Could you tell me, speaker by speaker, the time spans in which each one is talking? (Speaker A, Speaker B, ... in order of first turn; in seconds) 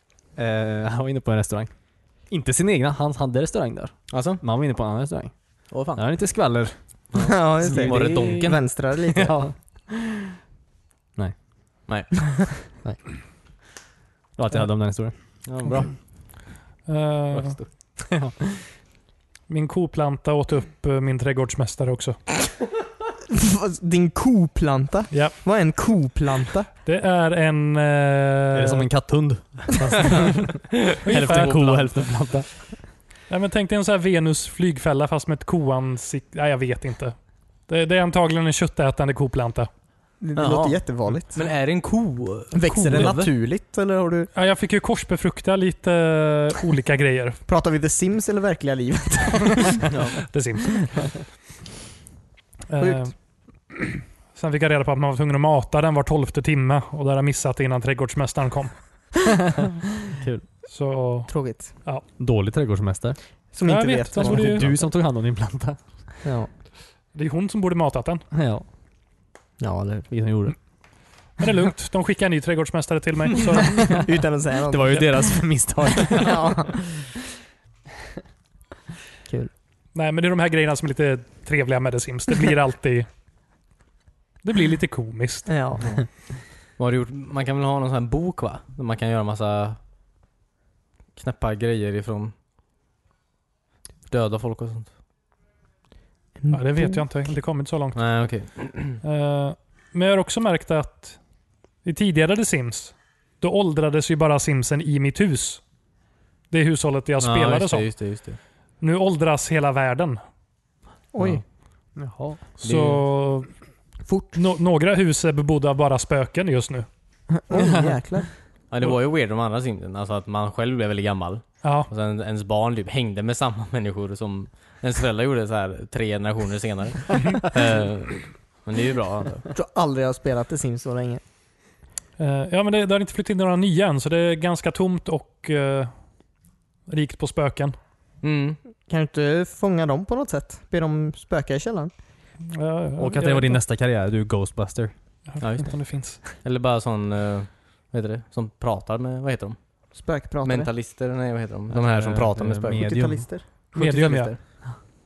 Speaker A: 0.3-8.5, 9.0-10.2, 14.3-15.7, 18.1-18.6, 28.5-32.8, 60.1-60.4, 62.2-63.2, 64.2-65.8, 68.3-68.6, 70.1-70.5, 74.7-76.8, 111.9-112.4, 117.5-117.9, 143.0-144.9, 151.7-153.3
Speaker B: 4.1-4.4, 5.7-6.0, 7.1-8.6, 11.9-12.3, 15.4-16.0, 17.3-17.7, 30.9-32.0, 40.4-43.3, 85.8-86.1, 86.8-89.8, 91.2-92.3, 94.1-94.9, 97.9-99.0, 107.2-108.4, 112.6-113.0, 118.7-129.5, 138.2-138.6, 145.4-149.6, 150.4-152.9, 153.8-154.2
Speaker C: 7.1-9.4, 23.3-26.7, 40.2-41.4, 42.5-44.3, 47.5-49.8, 52.8-53.1, 61.3-61.7, 63.5-64.8, 66.2-66.5, 69.6-70.1, 74.0-75.3, 76.1-76.8, 85.5-85.9, 96.4-97.1, 111.1-111.4, 114.0-114.4, 117.3-118.3, 129.5-131.2, 138.9-141.9, 149.9-150.7, 152.7-153.5
Speaker D: 16.9-17.6, 19.5-22.2, 25.1-25.4, 26.8-28.9, 31.0-31.9, 33.3-39.7, 44.3-47.4, 50.3-51.0, 52.7-53.1, 53.7-58.8, 60.7-62.0, 63.6-64.7, 67.1-68.2, 71.4-74.0, 79.9-83.1, 84.4-85.5, 96.5-98.0, 99.0-101.2, 101.8-105.6, 106.5-107.9, 108.8-110.2, 112.6-113.5, 114.3-116.9, 121.6-121.9, 132.2-135.9, 136.9-137.8, 142.4-143.6, 145.3-146.2, 153.7-154.3